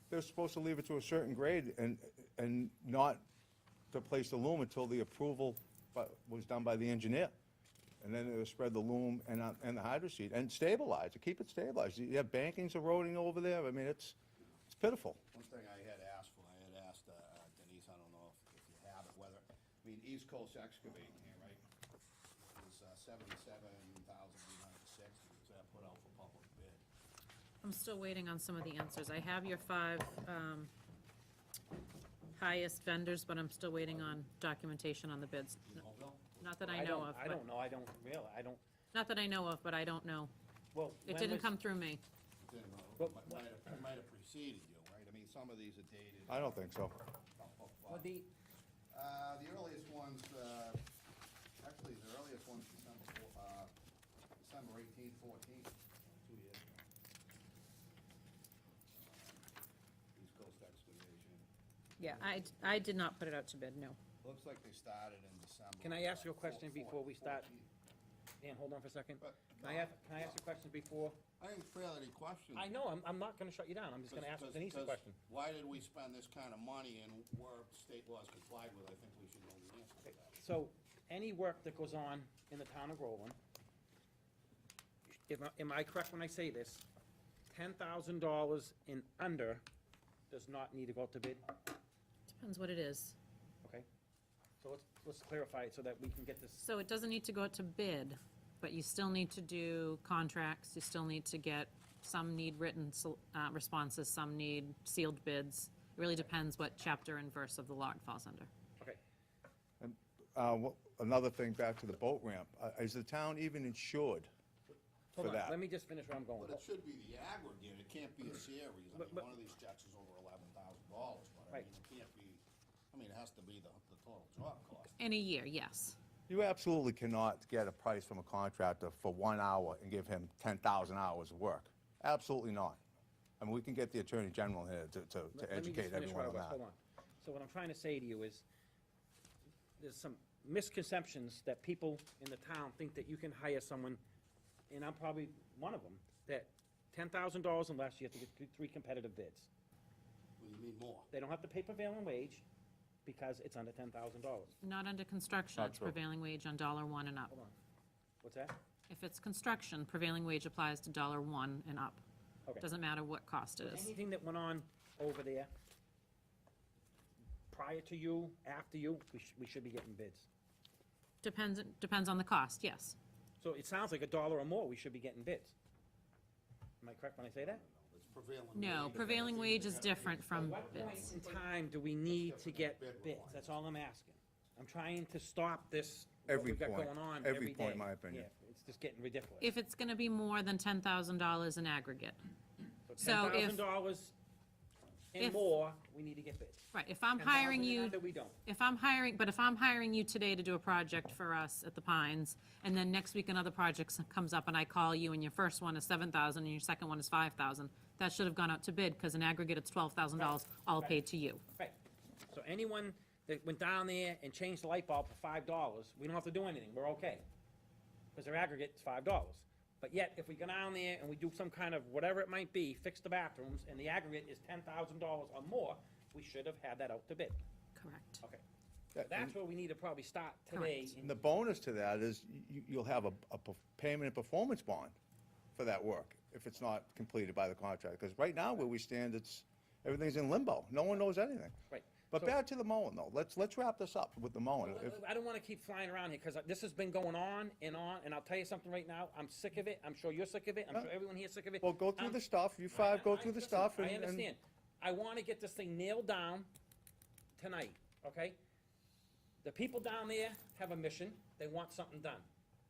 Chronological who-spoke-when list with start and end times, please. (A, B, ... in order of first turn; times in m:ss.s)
0:00.1-0:03.2 A
0:03.9-0:07.3 A
0:08.0-0:14.2 A
0:14.7-0:15.2 A
0:15.3-0:21.6 B
0:22.5-0:26.8 B
0:27.6-0:30.7 C
0:32.4-0:35.8 C
0:35.6-0:36.9 B
0:36.4-0:37.4 C
0:36.7-0:38.6 D
0:38.9-0:40.3 C
0:40.7-0:41.5 D
0:41.1-0:42.0 C
0:42.4-0:46.7 B
0:43.0-0:43.5 D
0:46.3-0:46.9 A
0:47.4-0:48.1 B
0:47.9-0:48.3 D
0:48.9-0:50.8 B
0:51.6-0:53.7 B
0:54.4-0:56.8 B
0:58.9-0:59.5 B
1:00.2-1:01.5 B
1:02.0-1:04.0 C
1:02.1-1:02.9 B
1:04.2-1:07.7 B
1:05.8-1:07.5 D
1:08.4-1:11.2 D
1:09.2-1:10.4 B
1:11.4-1:12.7 B
1:12.5-1:15.2 D
1:14.1-1:20.4 B
1:20.3-1:23.4 D
1:25.3-1:26.8 D
1:27.5-1:29.6 D
1:30.3-1:31.5 D
1:32.3-1:33.2 C
1:34.6-1:36.6 D
1:36.6-1:48.5 C
1:49.8-1:54.3 A
1:55.1-1:55.6 A
1:55.2-1:56.6 D
1:56.4-2:05.0 B
1:59.0-1:59.3 D
2:05.0-2:06.0 C
2:06.3-2:12.8 A
2:13.4-2:16.6 A
2:15.3-2:18.4 D
2:19.8-2:24.0 D
2:24.7-2:29.5 D
2:30.4-2:31.1 B
2:31.1-2:32.4 D
2:33.0-2:34.5 D
2:34.6-2:37.3 C
2:35.6-2:36.0 A
2:37.3-2:37.6 D
2:38.2-2:38.6 D
2:38.9-2:42.0 C
2:42.6-2:43.9 C
2:43.6-2:45.5 D
2:47.5-2:50.3 D
2:51.2-2:53.0 C
2:53.4-2:55.5 D
2:56.8-2:57.6 D
2:57.4-3:01.5 B
2:58.5-3:01.2 C
3:00.3-3:09.5 D
3:02.0-3:03.6 B
3:06.3-3:08.3 A
3:09.4-3:12.2 C
3:12.9-3:14.2 D
3:13.0-3:13.6 C
3:15.1-3:18.4 D
3:15.2-3:15.4 C
3:16.7-3:31.4 C
3:30.2-3:31.0 D
3:32.3-3:37.2 D
3:38.2-3:47.4 D
3:47.8-3:48.2 C
3:49.0-3:49.3 A
3:49.0-3:51.1 D
3:50.5-3:51.0 C
3:51.0-3:55.0 A
3:55.6-4:01.5 A
4:01.7-4:02.3 D
4:02.1-4:05.0 A
4:04.6-4:16.5 D
4:11.6-4:14.3 A
4:17.4-4:18.4 D
4:19.4-4:22.3 D